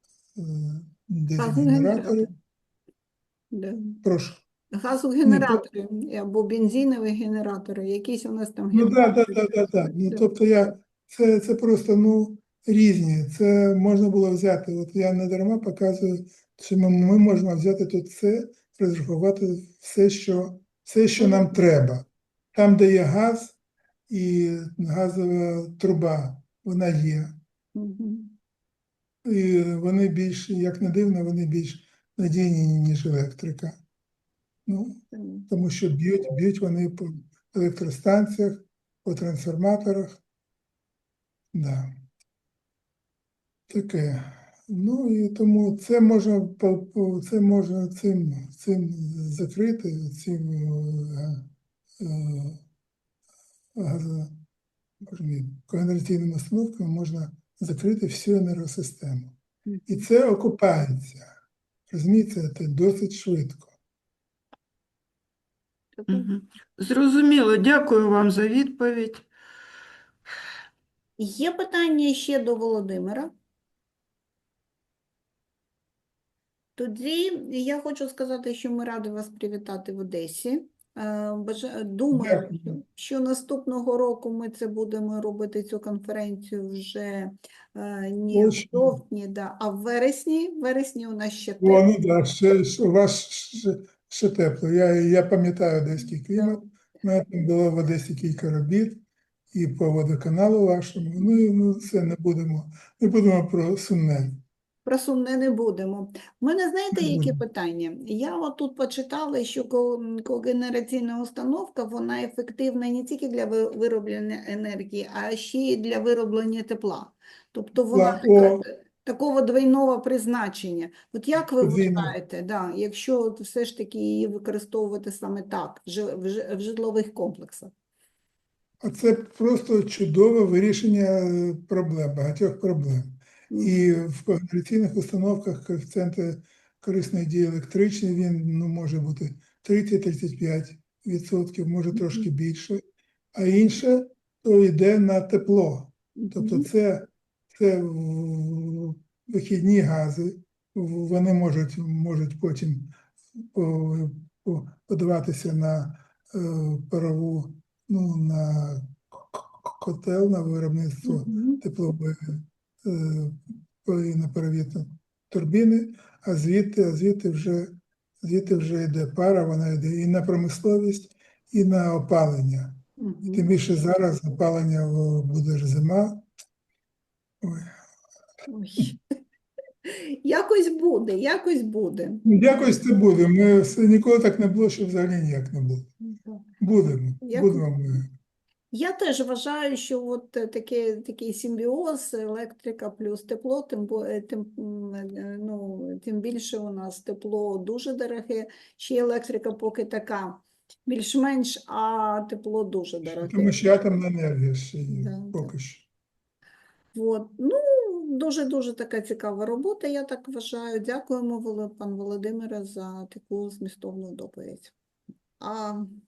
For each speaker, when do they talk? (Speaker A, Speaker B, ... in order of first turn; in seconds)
Speaker A: 0.4-2.3, 4.0-4.4, 5.2-5.6, 8.7-23.6, 24.1-27.4, 29.2-33.8, 34.6-40.2, 41.5-41.9, 43.7-52.6, 53.8-54.4, 55.0-61.3, 61.9-63.8, 82.1-82.7, 88.3-89.0, 91.6-104.4, 106.9-107.4, 117.9-118.6, 121.6-122.1, 128.8-142.8, 143.3-152.9, 153.5-172.8, 173.3-176.3, 177.4-177.7, 182.2-185.9, 186.6-188.1, 203.1-205.9
Speaker B: 1.4-2.3, 3.5-4.0, 4.7-10.2, 21.2-21.5, 27.8-28.4, 35.1-35.5, 66.0-66.3, 71.2-73.3, 76.8-91.9, 104.8-127.7, 133.5-133.8, 141.9-142.3, 146.2-146.7, 161.0-161.6, 173.0-173.4, 178.5-179.0, 179.8-182.3, 186.0-186.4, 187.2-187.7, 188.7-203.7, 204.9-205.5, 206.9-214.7, 215.4-215.9
Speaker C: 66.1-69.3